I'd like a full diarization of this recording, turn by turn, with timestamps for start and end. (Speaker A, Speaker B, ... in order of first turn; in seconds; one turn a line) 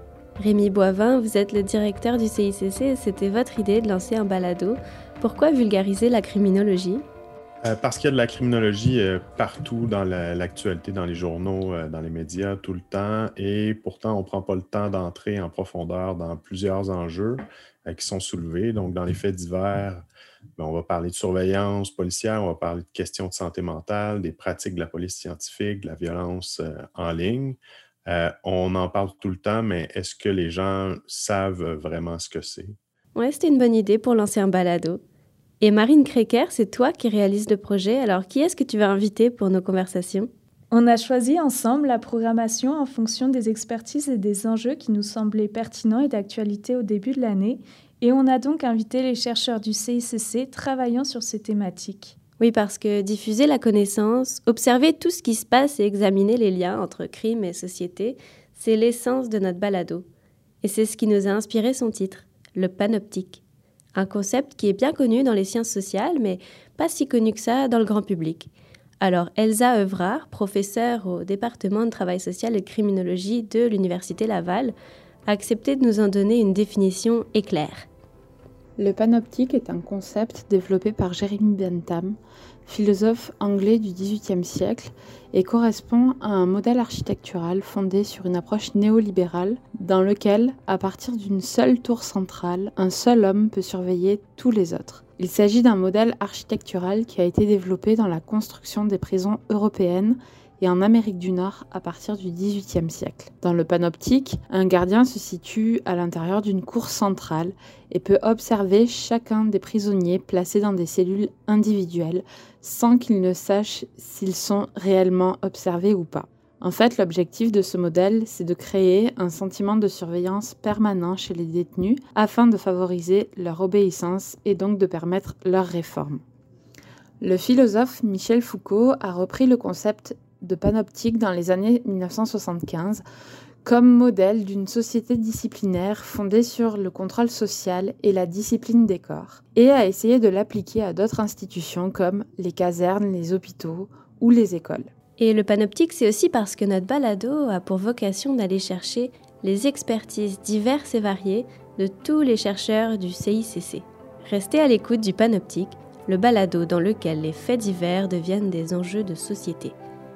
Speaker A: 0.4-7.0
Speaker B: 7.6-20.0
Speaker B: 20.6-32.8
Speaker A: 33.1-35.0
Speaker A: 35.6-40.3
Speaker C: 40.7-52.1
Speaker A: 52.4-60.0
Speaker A: 60.6-63.4
Speaker A: 63.9-68.5
Speaker A: 69.0-74.7
Speaker A: 75.3-77.9
Speaker D: 78.8-82.2
Speaker D: 82.7-126.2
Speaker D: 127.2-133.0
Speaker D: 133.6-144.9
Speaker A: 145.2-159.8